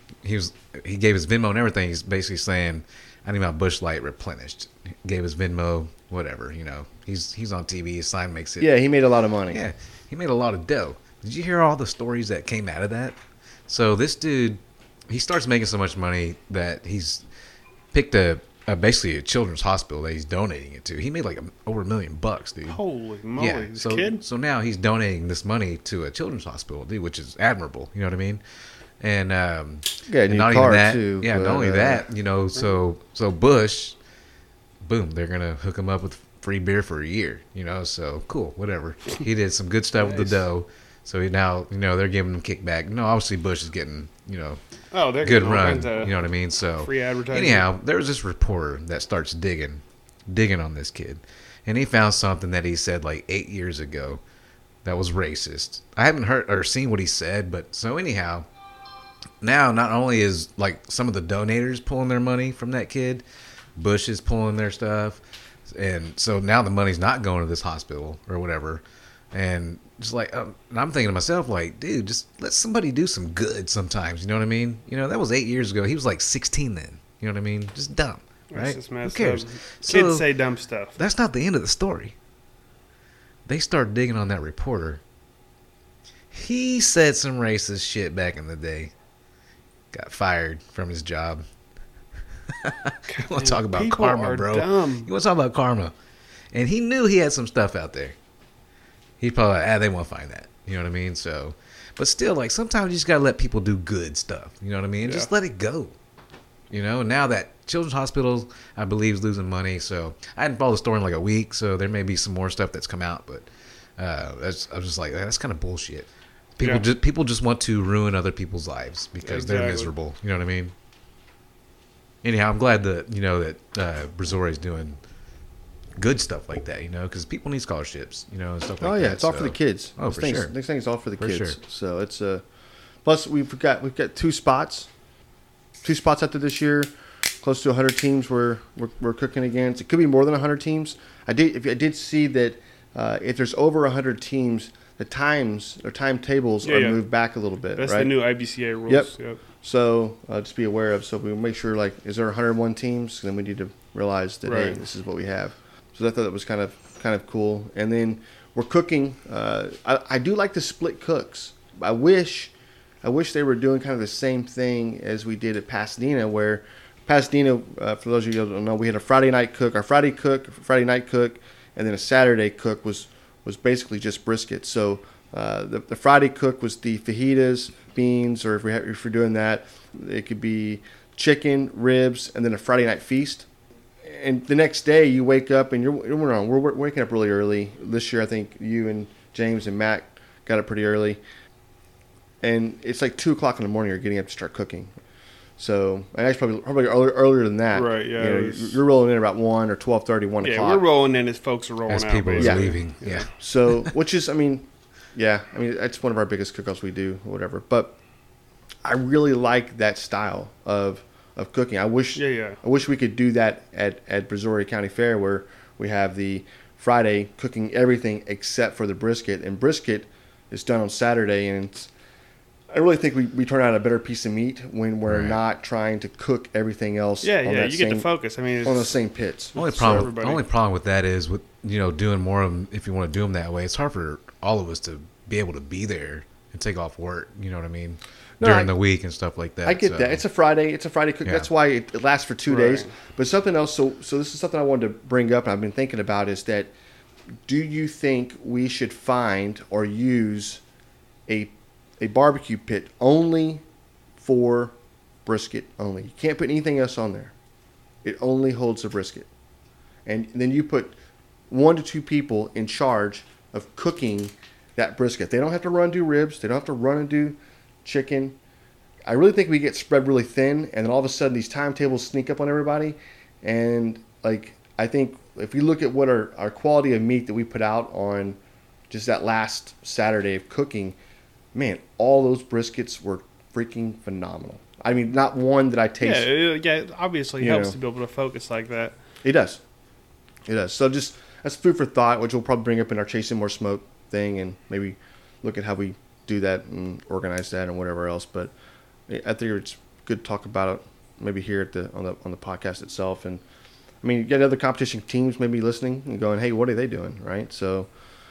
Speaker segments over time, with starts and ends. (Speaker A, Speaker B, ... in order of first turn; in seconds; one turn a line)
Speaker A: 0.2-8.8
Speaker B: 8.6-9.6
Speaker A: 9.5-13.2
Speaker A: 13.7-17.2
Speaker A: 17.9-22.8
Speaker C: 22.7-24.2
Speaker A: 23.4-28.4
Speaker A: 29.0-34.0
Speaker B: 30.1-32.0
Speaker A: 34.8-44.6
Speaker C: 40.0-40.3
Speaker C: 44.9-46.2
Speaker A: 45.2-54.2
Speaker C: 46.8-47.7
Speaker A: 54.8-58.5
Speaker A: 59.4-63.2
Speaker A: 63.8-80.3
Speaker C: 78.5-81.0
Speaker A: 81.0-82.2
Speaker A: 83.5-85.0
Speaker A: 86.3-88.9
Speaker A: 89.9-91.5
Speaker A: 92.5-95.9
Speaker C: 93.1-95.1
Speaker A: 96.5-98.2
Speaker A: 99.2-105.9
Speaker C: 105.0-105.3
Speaker A: 106.7-113.5
Speaker A: 114.0-120.7
Speaker C: 119.2-119.9
Speaker A: 122.2-125.0
Speaker A: 126.0-130.5
Speaker B: 128.8-132.4
Speaker A: 131.2-131.6
Speaker B: 133.0-134.9
Speaker B: 135.8-148.2
Speaker C: 146.6-147.0
Speaker C: 147.8-149.4
Speaker B: 148.9-162.5
Speaker C: 154.4-154.8
Speaker B: 163.0-183.5
Speaker B: 184.0-191.2
Speaker B: 192.4-194.9
Speaker B: 195.6-200.8
Speaker C: 197.7-198.8
Speaker C: 200.4-203.3
Speaker A: 201.9-203.3
Speaker B: 202.4-202.7
Speaker B: 203.4-208.0
Speaker B: 208.8-221.9
Speaker C: 212.2-212.6
Speaker B: 222.7-228.1
Speaker A: 225.1-225.4
Speaker C: 227.2-228.9
Speaker B: 228.7-230.1
Speaker C: 229.5-230.4
Speaker A: 229.6-240.2
Speaker B: 238.4-238.7
Speaker B: 239.6-246.7
Speaker C: 242.5-242.9
Speaker B: 247.5-250.6
Speaker B: 251.3-253.6
Speaker B: 254.2-257.3
Speaker B: 258.0-259.3
Speaker B: 260.1-260.9
Speaker B: 261.5-268.4
Speaker B: 269.1-278.4
Speaker B: 278.9-281.0
Speaker B: 281.5-286.3
Speaker C: 286.0-288.9
Speaker B: 287.4-287.8
Speaker B: 289.2-289.6
Speaker B: 290.5-298.5
Speaker B: 299.1-303.4
Speaker B: 304.0-307.9